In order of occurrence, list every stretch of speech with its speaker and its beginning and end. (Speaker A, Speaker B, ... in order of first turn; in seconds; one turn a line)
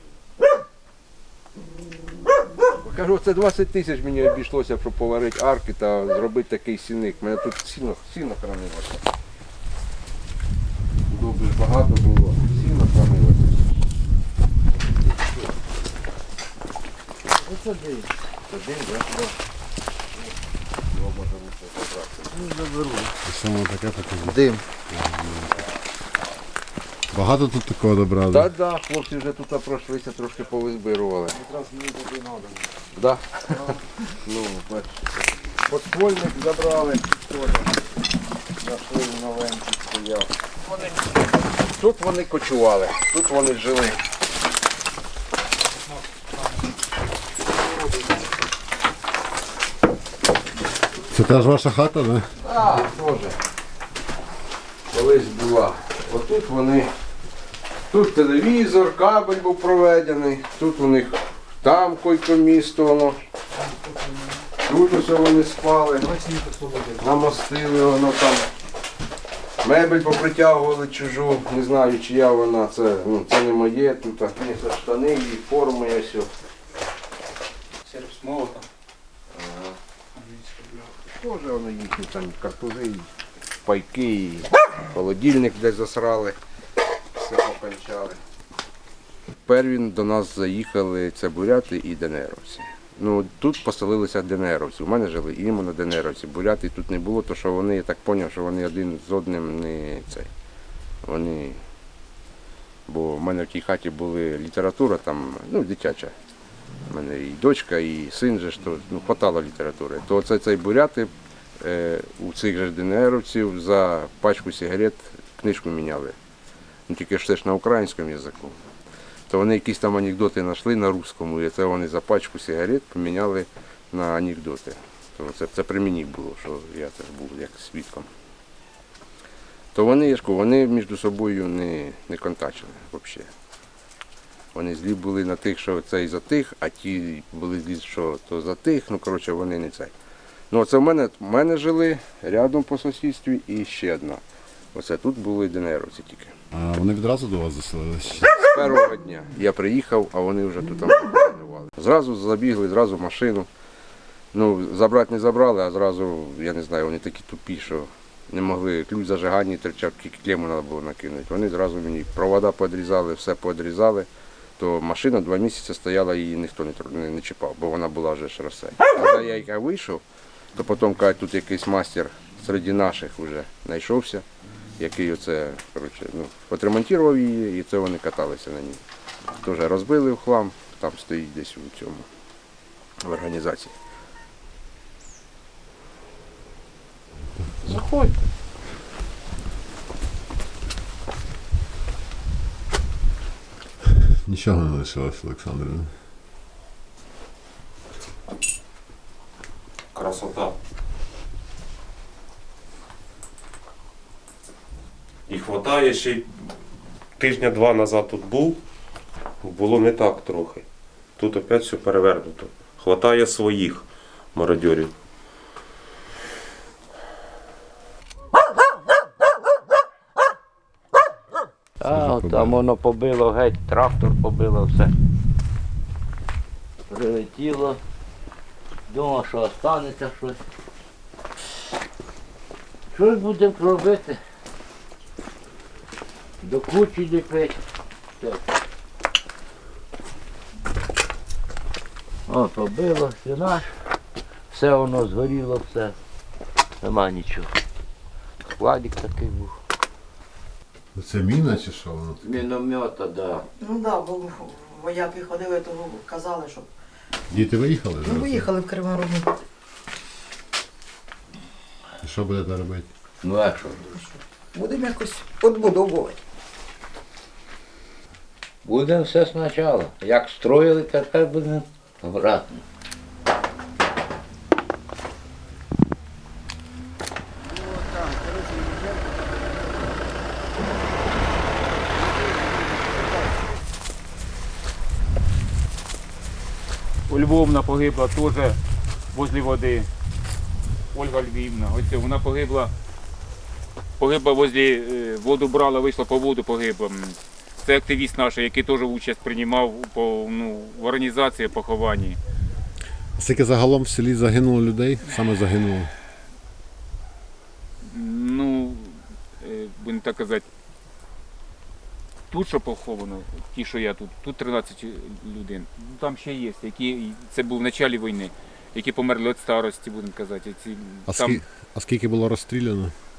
Speaker A: 2.8-9.1
Speaker A: 11.1-13.6
Speaker B: 17.4-18.1
Speaker A: 18.5-19.3
Speaker A: 20.9-22.5
Speaker C: 23.2-25.6
Speaker C: 27.1-28.5
Speaker A: 28.3-31.4
Speaker A: 33.0-33.6
Speaker A: 34.2-35.0
Speaker A: 35.7-37.8
Speaker A: 38.6-40.3
Speaker A: 41.6-44.0
Speaker C: 51.1-52.3
Speaker A: 52.4-53.4
Speaker A: 54.9-56.9
Speaker A: 57.9-63.2
Speaker A: 64.7-66.2
Speaker A: 67.0-68.5
Speaker A: 69.6-76.3
Speaker D: 78.1-78.5
Speaker A: 79.3-79.7
Speaker A: 81.1-83.1
Speaker A: 83.7-86.4
Speaker A: 87.1-88.2
Speaker A: 89.5-100.3
Speaker A: 101.0-101.6
Speaker A: 102.9-106.1
Speaker A: 106.9-116.2
Speaker A: 116.9-118.6
Speaker A: 119.3-128.1
Speaker A: 129.7-133.3
Speaker A: 134.5-139.9
Speaker A: 140.5-144.2
Speaker A: 144.7-146.3
Speaker C: 146.5-148.4
Speaker A: 148.4-153.5
Speaker A: 154.3-170.0
Speaker A: 170.6-174.2
Speaker A: 174.8-178.8
Speaker A: 179.4-182.1
Speaker A: 183.0-183.7
Speaker C: 193.8-195.9
Speaker E: 199.9-200.6
Speaker E: 205.3-206.3
Speaker E: 207.2-208.6
Speaker E: 209.4-210.7
Speaker E: 211.2-214.9
Speaker C: 221.8-222.6
Speaker B: 221.8-224.9
Speaker B: 226.9-227.8
Speaker B: 228.9-230.4
Speaker B: 232.9-234.2
Speaker B: 236.4-237.6
Speaker B: 238.2-238.5
Speaker B: 242.3-243.7
Speaker B: 244.5-245.9
Speaker B: 246.8-247.5
Speaker B: 248.4-249.6
Speaker C: 250.9-252.2
Speaker B: 252.2-253.5
Speaker F: 253.6-256.7
Speaker C: 257.3-258.5
Speaker F: 258.0-259.3
Speaker C: 262.0-262.9
Speaker B: 263.2-263.9
Speaker F: 263.9-266.2
Speaker B: 268.6-272.6
Speaker D: 287.1-288.6
Speaker D: 289.1-289.9
Speaker D: 290.9-292.7
Speaker D: 294.0-302.2
Speaker C: 303.2-305.9
Speaker D: 307.8-310.5
Speaker D: 312.3-321.4
Speaker C: 321.1-322.9